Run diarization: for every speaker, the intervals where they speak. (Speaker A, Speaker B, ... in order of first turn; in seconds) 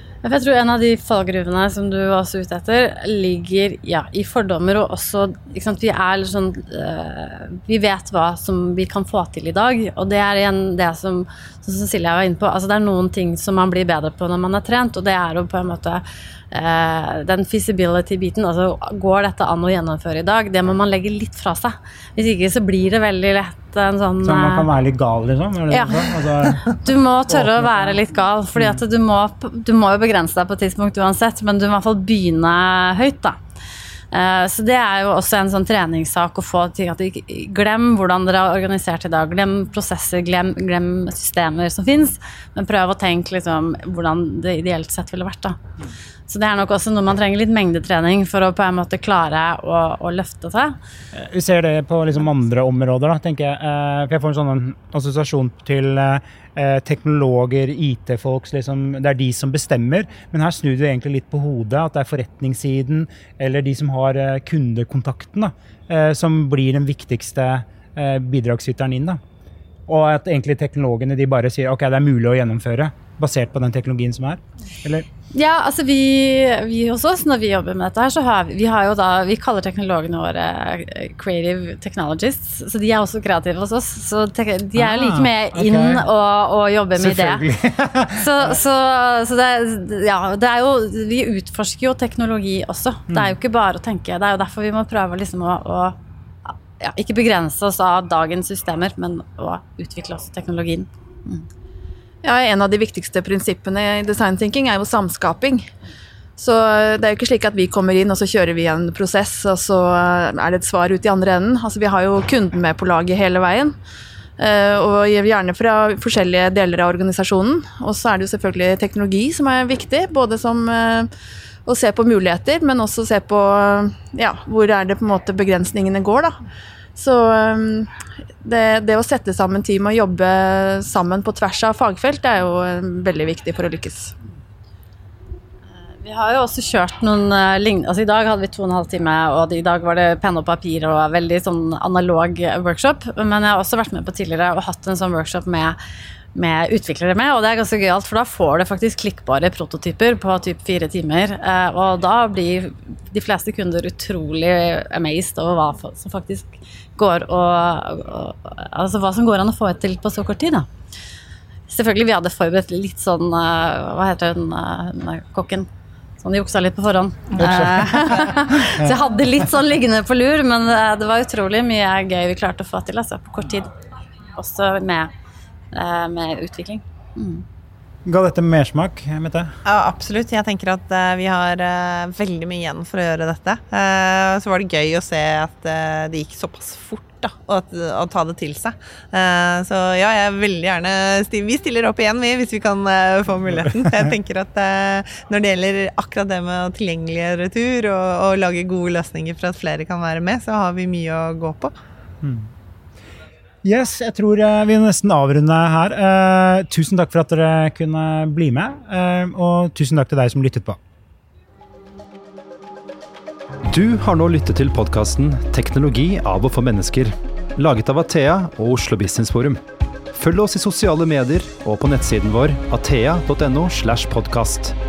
Speaker A: 0.2-24.7, 25.7-33.4, 34.1-45.6, 46.3-50.8, 75.3-87.5, 88.1-101.5, 136.0-145.8, 146.3-160.7, 161.7-165.7, 166.2-173.7, 174.3-175.1, 175.7-177.4
Speaker B: 24.2-26.8, 27.3-28.0, 28.6-28.8, 51.1-69.2, 69.9-75.1, 84.8-86.0, 87.0-88.6, 167.3-169.0, 178.1-179.6, 193.6-194.1, 202.2-202.5, 203.6-210.8
Speaker C: 102.2-105.7, 106.4-113.8, 114.4-121.1, 121.7-126.4, 127.0-127.9, 128.4-134.2
Speaker D: 179.7-201.7
Speaker E: 213.7-219.6, 220.1-224.8